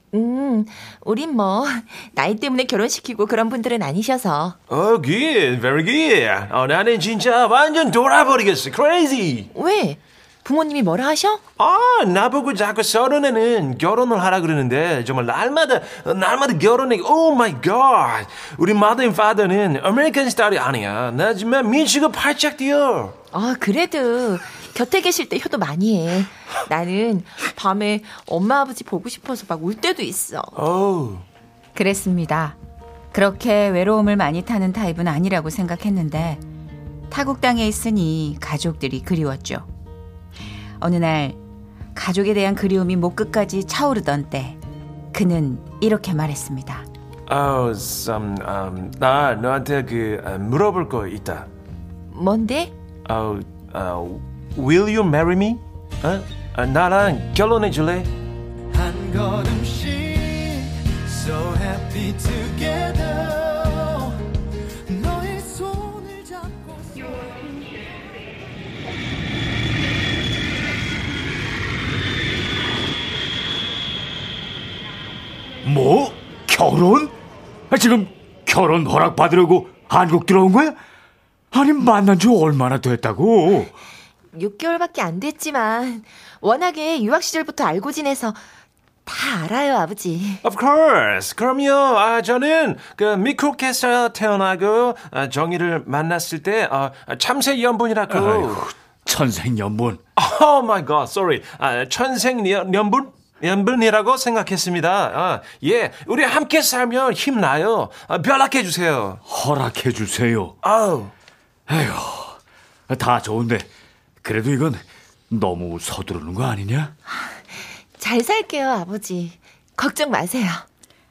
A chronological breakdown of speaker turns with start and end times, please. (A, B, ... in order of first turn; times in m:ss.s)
0:00.1-0:04.6 A
0:04.7-0:09.5 B
0:09.5-0:11.4 A
0:11.6-0:23.1 B
0:23.3-0:30.6 A
0:30.6-0:31.2 B
0:31.8-0:32.6 C
0:33.1-0:36.4 C
0:37.1-0:39.7 C
0:40.8-0:41.4 C
0:42.0-0:44.6 C
0:45.1-0:46.9 C
0:47.3-0:51.5 B
0:52.1-0:52.7 A
0:53.1-0:58.1 B
0:59.0-1:00.3 D
1:01.3-1:04.1 D
1:04.9-1:07.2 D
1:15.6-1:17.1 E
1:17.7-1:20.8 E
1:21.5-1:23.8 E
1:24.4-1:28.4 A
1:29.1-1:30.4 A
1:30.4-1:38.7 B
1:38.1-1:40.0 E
1:40.2-1:49.2 B
1:49.3-1:50.6 E
1:50.6-1:51.1 B
1:51.7-1:53.7 E
1:54.2-1:56.9 E
1:57.1-2:00.7 A